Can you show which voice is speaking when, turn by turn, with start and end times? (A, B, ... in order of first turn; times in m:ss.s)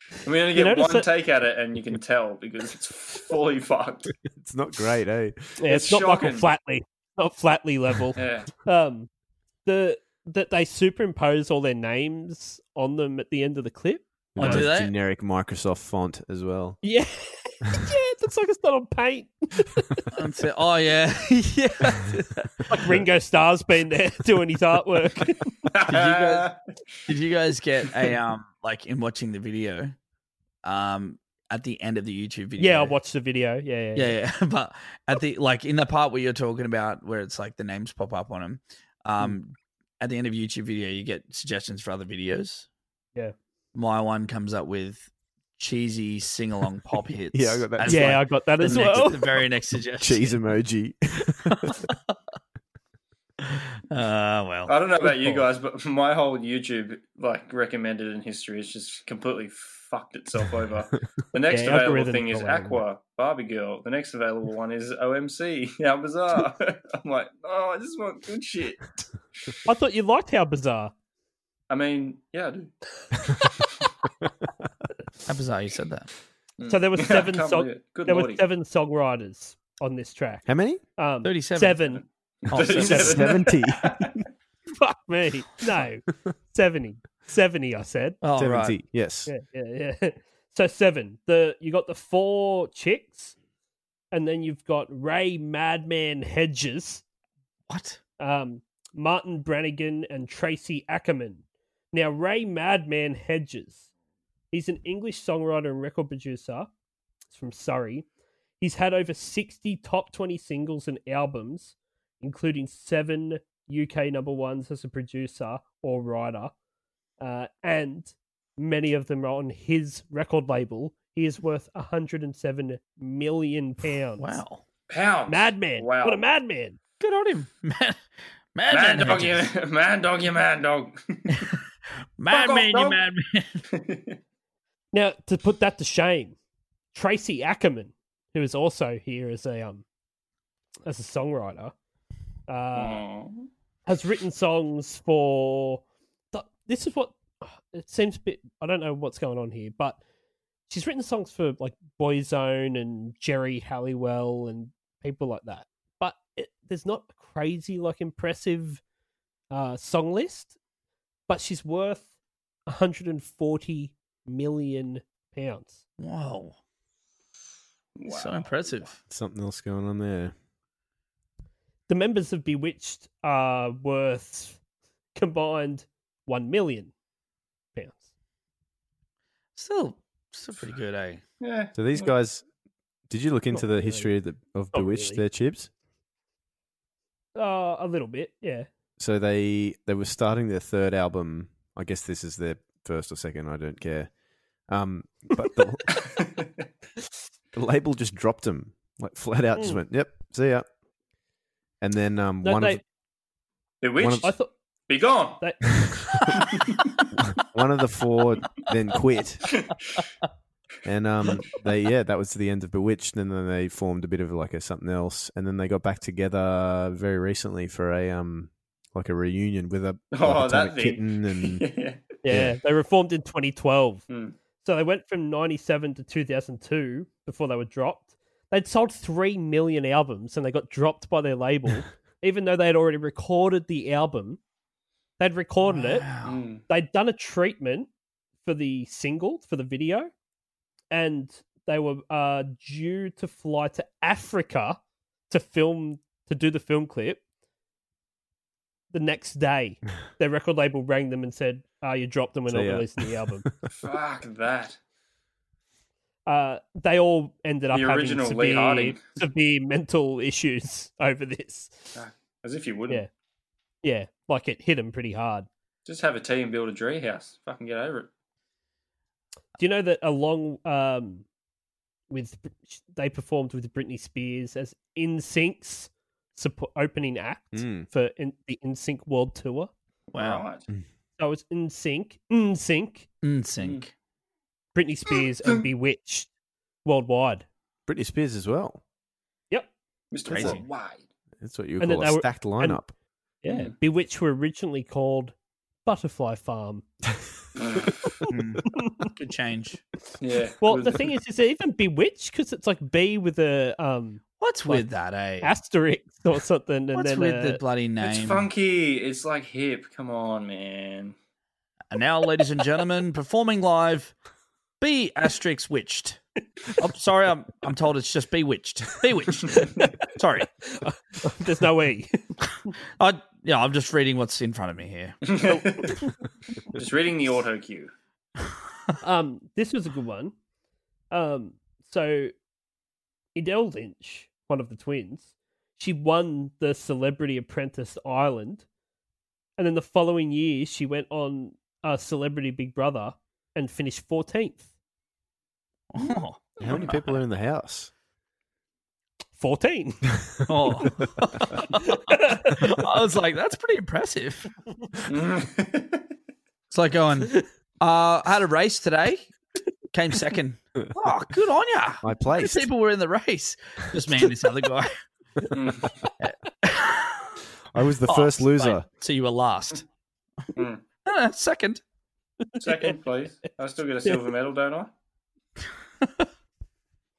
0:00.2-0:04.1 A
0:00.5-0:01.1 B
0:04.3-0:05.4 C
0:05.6-0:09.1 B
0:05.7-0:06.5 A
0:08.2-0:08.5 A
0:09.6-0:14.7 B
0:14.3-0:16.8 C
0:14.4-0:14.9 D
0:16.8-0:20.0 B
0:20.1-0:21.9 D
0:21.8-0:25.5 B
0:25.7-0:26.5 A
0:25.9-0:26.5 D
0:27.1-0:29.9 D
0:30.6-0:33.0 D
0:32.6-0:34.2 B
0:33.9-0:42.6 D
0:43.7-0:50.4 D
0:47.3-0:49.1 C
0:47.8-0:49.4 B
0:50.0-0:51.8 C
0:51.5-0:51.8 D
0:53.9-0:54.7 D
0:54.7-1:08.9 A
0:55.0-0:55.4 B
1:01.5-1:02.8 B
1:09.6-1:10.9 B
1:11.7-1:12.7 A
1:15.3-1:16.1 D
1:16.6-1:18.4 A
1:16.7-1:20.4 B
1:20.4-1:20.8 C
1:21.0-1:22.0 B
1:21.2-1:22.0 D
1:22.5-1:23.3 D
1:22.5-1:24.2 A
1:22.8-1:24.1 C
1:22.9-1:23.2 B
1:24.8-1:28.2 B
1:28.2-1:28.8 D
1:28.4-1:29.3 C
1:29.3-1:33.3 B
1:34.1-1:37.0 B
1:37.7-1:38.0 D
1:38.2-1:43.8 B
1:44.5-1:46.7 B
1:47.3-1:48.0 B
1:48.6-1:56.5 B
1:57.2-2:04.4 B
2:04.2-2:04.6 D
2:04.9-2:06.2 A
2:05.3-2:06.8 B
2:07.0-2:08.0 D
2:08.5-2:09.5 D
2:08.7-2:11.5 A
2:12.2-2:13.6 D
2:12.3-2:13.0 A
2:13.7-2:14.2 A
2:14.9-2:16.4 B
2:16.9-2:19.8 B
2:20.8-2:21.7 B
2:22.5-2:23.0 B
2:22.7-2:23.5 A
2:23.9-2:25.8 B
2:26.3-2:30.0 B
2:30.7-2:38.8 B
2:39.5-2:40.5 B
2:41.3-2:42.1 B
2:42.7-2:45.8 B
2:46.0-2:46.6 D
2:48.0-2:48.9 A
2:48.0-2:49.0 D
2:49.1-2:50.3 C
2:51.9-2:54.6 B
2:55.1-2:56.9 B
2:57.7-2:58.0 B
2:59.6-3:01.2 D
3:01.4-3:02.1 A
3:01.7-3:02.4 C
3:03.1-3:05.7 C
3:03.5-3:04.1 B
3:04.7-3:05.2 B
3:07.3-3:08.7 B
3:09.0-3:14.1 C
3:14.7-3:16.0 C
3:17.5-3:20.6 C
3:21.8-3:22.8 C
3:22.4-3:22.8 B
3:23.8-3:24.4 A
3:24.0-3:24.3 C
3:24.2-3:24.5 B
3:24.9-3:25.4 A
3:25.4-3:26.4 B
3:26.4-3:26.9 A
3:27.3-3:29.6 C
3:30.8-3:41.6 C
3:40.1-3:42.0 A
3:42.2-3:44.0 B
3:42.3-3:42.6 C
3:44.1-3:44.4 A
3:44.6-3:54.4 B
3:55.2-3:56.0 B
3:55.6-3:56.4 D
3:56.2-3:56.6 A
3:56.7-3:57.9 B
3:58.4-4:00.1 B
4:00.9-4:04.8 B
4:05.3-4:07.2 B
4:08.9-4:13.4 B
4:12.5-4:13.5 C
4:13.8-4:14.8 A
4:16.2-4:21.9 B
4:17.7-4:19.0 A
4:21.9-4:23.0 A
4:23.8-4:25.5 B
4:25.8-4:28.1 A
4:29.6-4:31.2 B
4:32.1-4:39.7 B
4:37.5-4:37.9 C
4:40.1-4:40.4 D
4:40.1-4:40.6 A
4:41.2-4:43.1 B
4:43.2-4:43.9 D
4:44.7-4:46.3 B
4:45.1-4:45.6 A
4:46.8-4:47.4 B
4:47.9-4:48.8 C
4:50.1-4:51.0 A
4:50.3-4:50.6 D
4:51.4-4:52.9 C
4:51.8-4:52.8 B
4:53.4-4:56.8 B
4:53.4-4:53.7 A
4:57.6-4:58.0 A
4:58.3-4:58.6 D
4:58.8-4:59.1 B
4:59.2-4:59.8 D
5:00.2-5:01.1 A
5:00.6-5:04.8 B
5:04.4-5:05.5 D
5:05.4-5:07.6 B
5:06.9-5:08.5 D
5:08.0-5:11.1 A
5:11.9-5:14.1 D
5:14.8-5:16.2 D
5:16.8-5:20.5 D
5:20.7-5:22.3 B
5:23.0-5:25.2 D
5:25.2-5:25.9 A
5:25.5-5:26.1 B
5:26.7-5:27.9 A
5:29.0-5:30.3 B
5:31.1-5:32.3 B
5:33.3-5:38.6 B
5:39.6-5:44.6 B
5:45.9-5:47.1 D
5:46.6-5:47.9 C
5:49.4-5:50.1 B
5:50.5-5:54.5 D
5:51.6-5:52.8 B
5:55.1-5:56.0 A
5:56.7-5:59.3 D
5:59.9-6:05.0 D
6:02.0-6:02.7 C
6:05.5-6:05.9 A
6:06.2-6:07.3 D
6:07.7-6:08.8 C
6:08.1-6:09.8 D
6:10.6-6:10.8 A
6:11.0-6:11.8 D
6:12.6-6:13.0 B
6:12.6-6:14.9 A